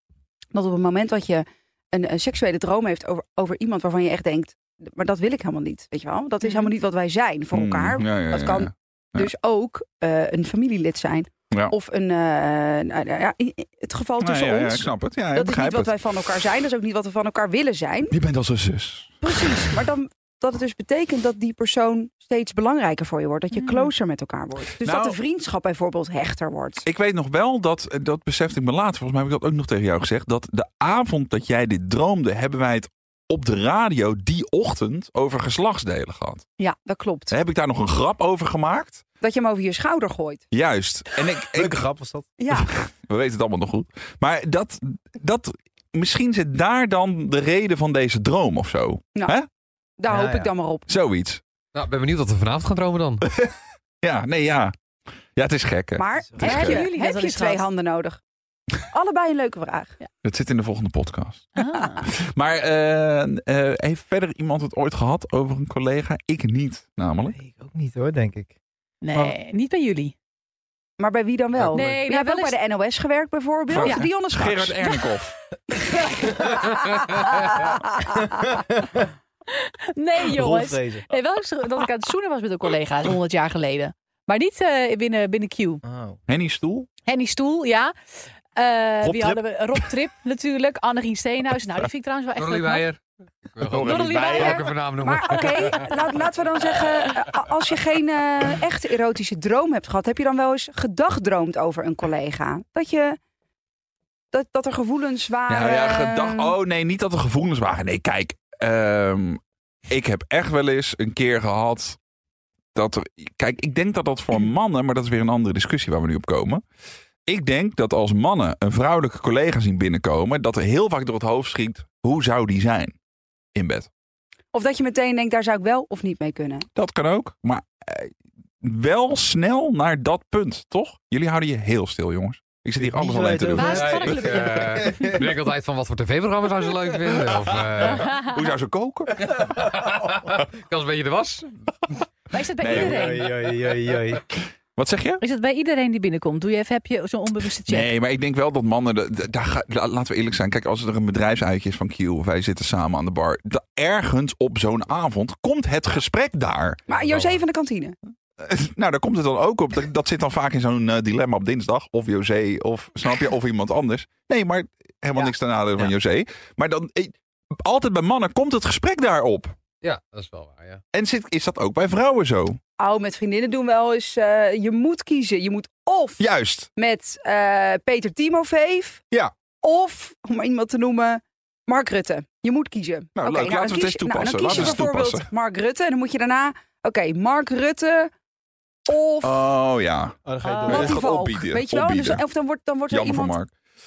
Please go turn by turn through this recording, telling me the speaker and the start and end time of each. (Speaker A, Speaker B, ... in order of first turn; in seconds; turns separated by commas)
Speaker A: 0.5-18.1, Speaker B: 6.4-6.7, Speaker C: 7.5-9.3, Speaker C: 14.2-16.0, Speaker C: 18.1-19.5, Speaker A: 19.2-26.9, Speaker B: 23.5-23.9, Speaker C: 24.8-25.2, Speaker C: 26.8-36.4, Speaker A: 36.6-37.3, Speaker C: 37.3-39.0, Speaker A: 39.2-40.4, Speaker C: 40.5-41.9, Speaker D: 41.5-42.3, Speaker A: 42.4-42.7, Speaker C: 42.5-49.5, Speaker A: 50.0-50.9, Speaker D: 50.1-50.5, Speaker C: 50.9-51.4, Speaker E: 51.7-53.3, Speaker C: 53.3-54.7, Speaker C: 55.3-56.9, Speaker A: 56.0-58.2, Speaker D: 56.3-56.7, Speaker B: 56.4-57.6, Speaker A: 58.9-59.9, Speaker C: 60.2-67.4, Speaker B: 61.5-62.0, Speaker D: 67.3-68.5, Speaker B: 69.0-70.1, Speaker A: 71.0-75.0, Speaker D: 71.7-72.0, Speaker B: 71.7-72.6, Speaker C: 73.7-75.4, Speaker B: 73.8-74.1, Speaker A: 76.0-76.7, Speaker A: 77.5-78.2, Speaker D: 78.5-79.0, Speaker B: 79.5-85.8, Speaker D: 80.2-81.1, Speaker D: 85.8-86.2, Speaker C: 86.3-86.9, Speaker B: 87.0-92.8, Speaker D: 89.0-89.4, Speaker E: 92.3-93.0, Speaker E: 93.5-95.9, Speaker C: 93.6-94.6, Speaker B: 93.7-94.7, Speaker A: 95.0-103.2, Speaker A: 104.3-106.5, Speaker C: 105.5-112.0, Speaker C: 112.7-116.6, Speaker C: 117.2-123.0, Speaker C: 123.5-123.9, Speaker A: 124.5-126.7, Speaker C: 126.7-134.1, Speaker D: 132.8-135.3, Speaker B: 133.5-135.1, Speaker E: 133.7-138.1, Speaker C: 137.7-139.4, Speaker E: 139.2-142.0, Speaker B: 142.3-143.3, Speaker C: 142.6-143.2, Speaker D: 142.6-144.2, Speaker C: 144.3-145.2, Speaker B: 145.2-147.9, Speaker C: 147.7-156.8, Speaker A: 156.9-157.9, Speaker E: 156.9-157.4, Speaker C: 158.4-169.6, Speaker E: 169.8-170.8, Speaker C: 170.9-172.6, Speaker A: 172.8-176.2, Speaker C: 176.2-176.7, Speaker A: 176.8-179.0, Speaker A: 179.6-188.1, Speaker C: 183.1-185.3, Speaker A: 188.9-189.4, Speaker C: 189.2-192.2, Speaker D: 190.2-191.0, Speaker A: 190.6-193.3, Speaker C: 192.9-193.5